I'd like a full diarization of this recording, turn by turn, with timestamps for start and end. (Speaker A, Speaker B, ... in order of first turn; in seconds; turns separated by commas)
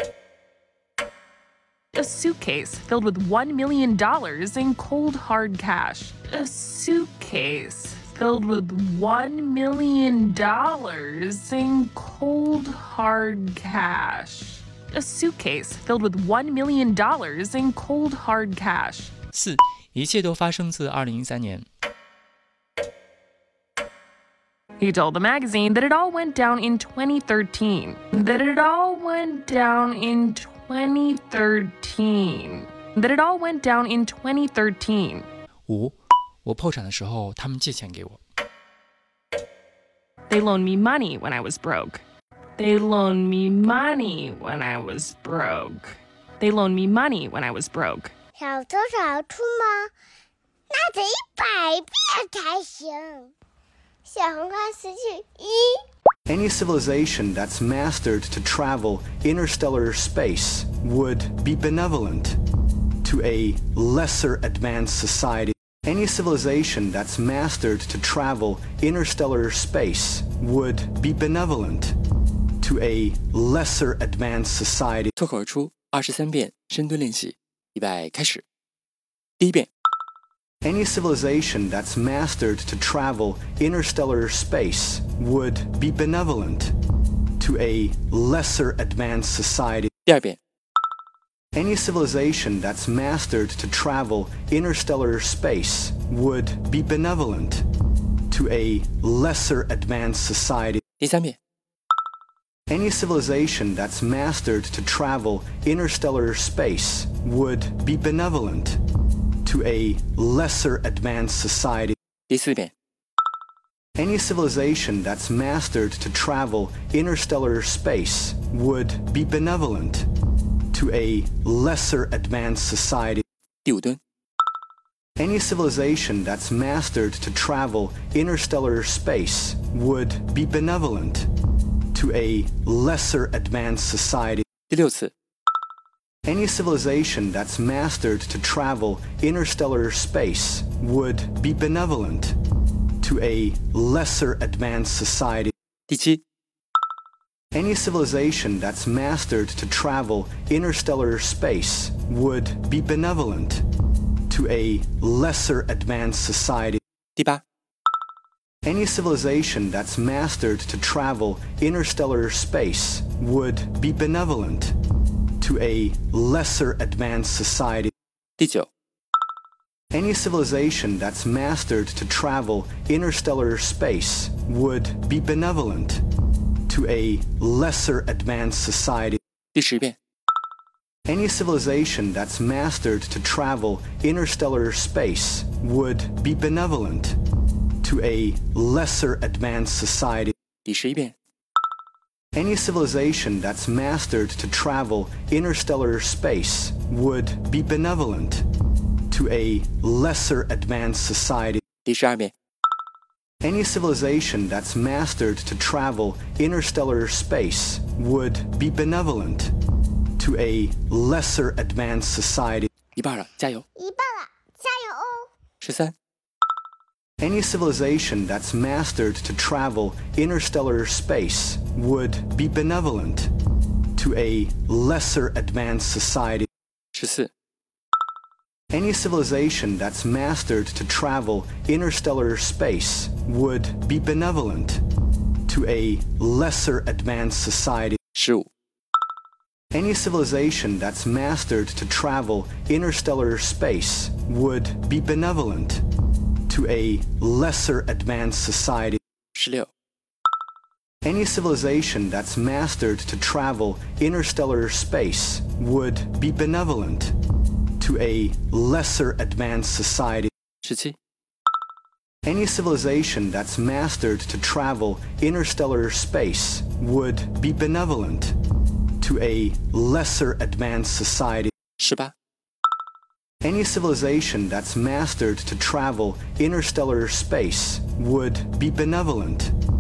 Speaker A: 1.9-19.1, Speaker B: 19.3-21.7, Speaker A: 24.8-35.3, Speaker B: 35.7-38.2, Speaker A: 40.3-42.0, Speaker A: 42.6-48.1, Speaker C: 48.4-49.9, Speaker C: 50.7-53.3, Speaker C: 54.0-55.8, Speaker D: 56.3-62.4, Speaker D: 63.0-72.0, Speaker D: 72.6-75.1, Speaker B: 75.2-78.4, Speaker B: 79.4-79.7, Speaker D: 80.6-86.7, Speaker D: 87.4-89.9, Speaker B: 90.1-90.4, Speaker D: 91.5-97.7, Speaker D: 98.3-100.8, Speaker B: 101.0-101.3, Speaker D: 102.7-108.8, Speaker D: 109.5-112.0, Speaker B: 112.3-112.7, Speaker D: 114.0-120.1, Speaker D: 120.7-123.2, Speaker B: 123.7-124.0, Speaker D: 125.2-131.3, Speaker D: 131.9-134.4, Speaker B: 134.7-135.1, Speaker D: 136.2-142.4, Speaker D: 143.0-145.5, Speaker B: 145.9-146.2, Speaker D: 147.5-153.7, Speaker D: 154.3-156.8, Speaker D: 158.7-164.8, Speaker D: 165.4-167.9, Speaker B: 168.4-168.7, Speaker D: 169.9-176.0, Speaker D: 176.7-179.2, Speaker B: 179.6-179.9, Speaker D: 181.1-187.2, Speaker D: 187.8-190.3, Speaker B: 190.7-191.1, Speaker D: 192.3-198.4, Speaker D: 199.1-201.6, Speaker B: 201.9-202.3, Speaker D: 203.4-209.5, Speaker D: 210.2-212.7, Speaker B: 213.0-213.6, Speaker C: 213.8-215.3, Speaker B: 215.6-215.9, Speaker D: 217.2-223.3, Speaker D: 224.0-226.5, Speaker B: 226.9-227.3, Speaker D: 228.7-234.8, Speaker D: 235.5-238.0, Speaker B: 238.2-238.5, Speaker D: 239.7-245.8, Speaker D: 246.5-249.0, Speaker B: 249.3-249.7, Speaker D: 251.0-257.1, Speaker D: 257.8-260.3, Speaker B: 260.6-261.0, Speaker D: 262.2-268.4, Speaker D: 269.0-271.5, Speaker B: 271.8-272.1, Speaker D: 273.4-279.5